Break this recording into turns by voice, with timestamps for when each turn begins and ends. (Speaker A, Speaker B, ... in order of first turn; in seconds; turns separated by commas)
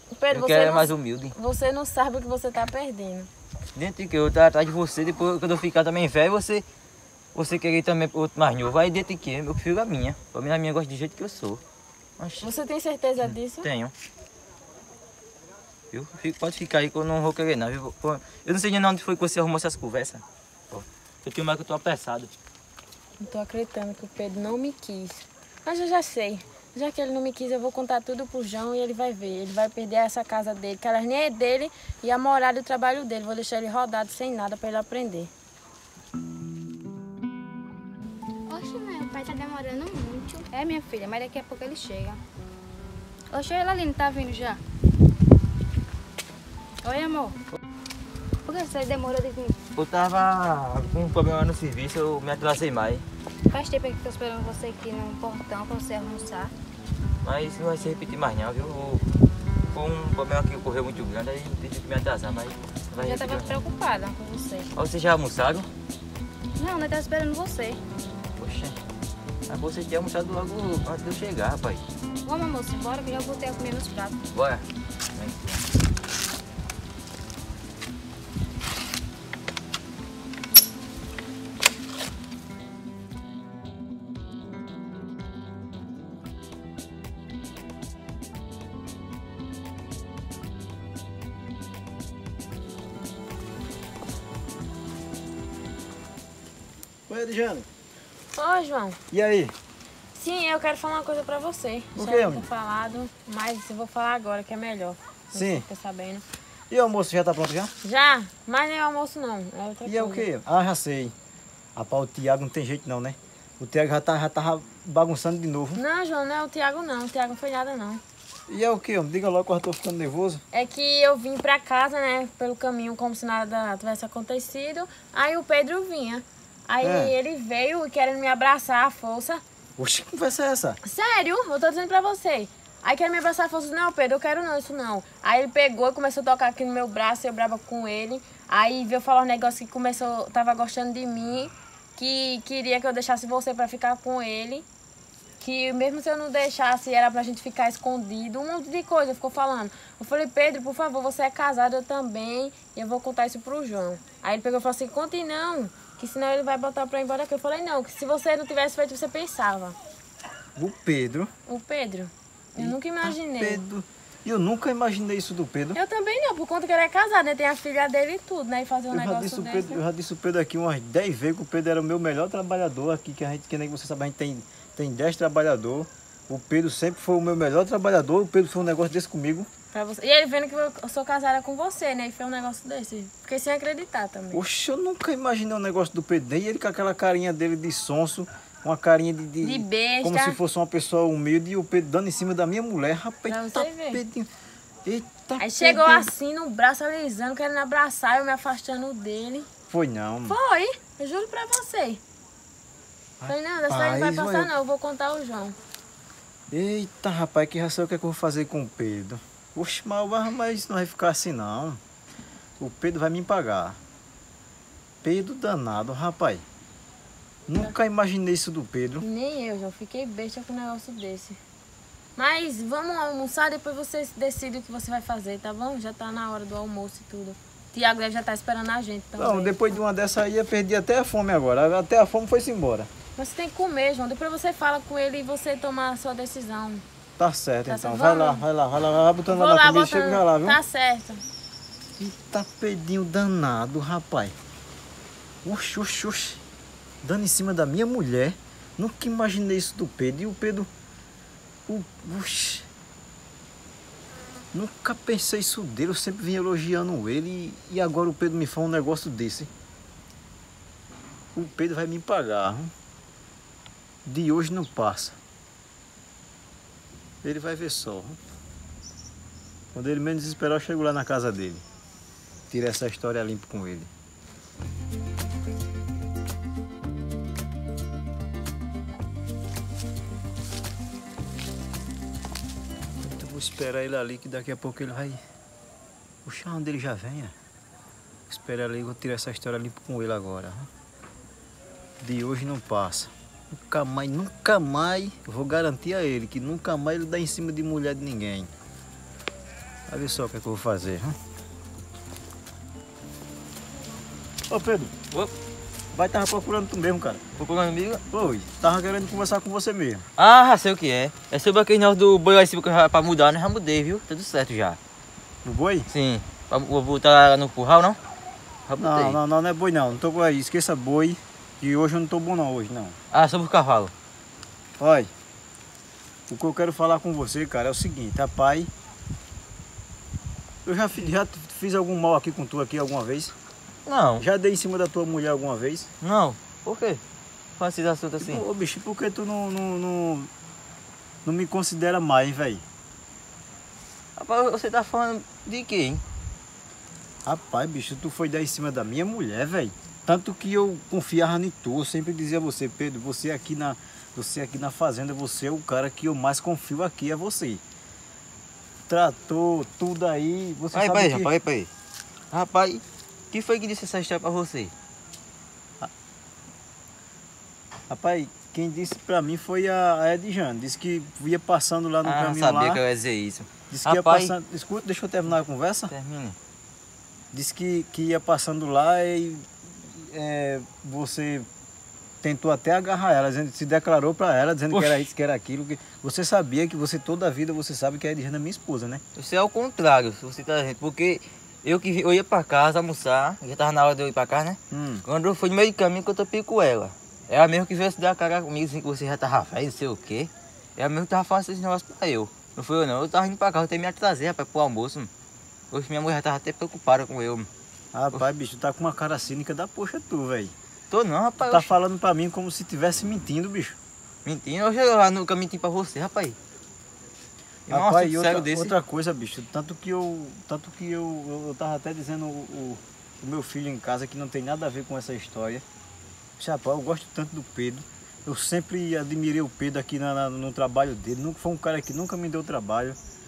Speaker A: 0.2-3.3, Speaker B: 0.3-1.3, Speaker B: 3.7-6.6, Speaker B: 7.3-11.6, Speaker B: 12.2-12.5, Speaker A: 12.4-13.7, Speaker B: 13.2-13.9, Speaker B: 15.9-22.3, Speaker A: 23.2-35.3, Speaker C: 38.5-42.2, Speaker C: 43.3-44.6, Speaker C: 46.8-47.4, Speaker C: 48.5-49.5, Speaker B: 49.8-53.0, Speaker C: 53.5-56.5, Speaker B: 57.2-59.0, Speaker B: 59.7-63.6, Speaker C: 63.0-64.7, Speaker B: 64.7-65.7, Speaker C: 66.6-67.8, Speaker B: 68.4-68.8, Speaker B: 69.5-71.8, Speaker C: 72.2-74.2, Speaker B: 74.3-74.6, Speaker B: 75.1-75.6, Speaker D: 97.1-97.7, Speaker A: 98.3-99.0, Speaker D: 99.1-99.5, Speaker A: 100.1-106.2, Speaker D: 101.9-102.4, Speaker D: 105.3-105.6, Speaker D: 106.7-107.7, Speaker A: 107.8-110.3, Speaker D: 109.8-111.1, Speaker D: 111.7-115.8, Speaker A: 115.7-118.0, Speaker D: 118.5-120.4, Speaker A: 120.5-129.4, Speaker D: 126.8-127.1, Speaker D: 129.8-130.8, Speaker A: 130.8-144.7, Speaker A: 145.4-159.8, Speaker D: 160.6-161.3, Speaker A: 161.5-163.6, Speaker D: 162.6-165.8, Speaker A: 165.7-169.8, Speaker D: 168.9-179.5, Speaker A: 179.7-184.4, Speaker D: 184.3-194.3, Speaker A: 189.4-190.4, Speaker A: 193.3-194.0, Speaker D: 194.8-196.1, Speaker A: 195.4-199.5, Speaker D: 199.7-200.3, Speaker A: 200.3-202.0, Speaker D: 203.2-204.5, Speaker A: 203.3-205.6, Speaker D: 206.5-211.8, Speaker D: 212.6-213.8, Speaker D: 215.0-216.4, Speaker D: 217.5-219.0, Speaker A: 219.0-221.4, Speaker A: 222.2-229.6, Speaker D: 229.2-232.9, Speaker A: 233.2-236.8, Speaker D: 237.2-240.6, Speaker A: 237.7-238.4, Speaker A: 239.3-241.2, Speaker D: 242.0-244.3, Speaker D: 245.4-246.4, Speaker D: 247.0-250.7, Speaker D: 251.7-252.7, Speaker D: 254.5-259.5, Speaker D: 261.3-262.7, Speaker D: 264.0-265.2, Speaker D: 267.2-268.2, Speaker D: 269.7-271.6, Speaker D: 272.5-273.9, Speaker D: 283.0-285.2, Speaker D: 286.2-287.3, Speaker D: 288.3-290.7, Speaker D: 292.0-298.5, Speaker D: 299.9-301.2, Speaker D: 304.5-304.9, Speaker D: 305.9-307.2, Speaker B: 307.4-308.0, Speaker D: 308.1-310.1, Speaker B: 310.2-314.8, Speaker D: 315.4-315.9, Speaker B: 315.9-318.0, Speaker B: 318.6-319.2, Speaker D: 318.8-322.9, Speaker B: 323.1-323.9, Speaker D: 324.8-325.1, Speaker D: 326.3-328.7, Speaker D: 330.6-333.3, Speaker B: 333.9-334.2, Speaker D: 334.2-335.9, Speaker B: 336.0-337.0, Speaker B: 337.6-338.4, Speaker D: 338.2-340.3, Speaker D: 341.2-342.6, Speaker B: 344.2-346.0, Speaker D: 347.2-357.6, Speaker D: 358.9-361.3, Speaker B: 360.7-361.7, Speaker B: 362.3-364.7, Speaker D: 367.9-372.8, Speaker B: 372.0-374.3, Speaker D: 373.7-375.9, Speaker B: 375.9-376.4, Speaker D: 377.3-381.5, Speaker D: 382.2-389.0, Speaker B: 384.7-385.1, Speaker B: 389.1-405.1, Speaker D: 394.7-395.0, Speaker B: 405.7-407.5, Speaker D: 407.9-410.5, Speaker B: 410.9-411.7, Speaker D: 411.4-413.8, Speaker B: 414.2-416.4, Speaker D: 417.7-425.6, Speaker B: 417.7-418.7, Speaker D: 426.4-433.0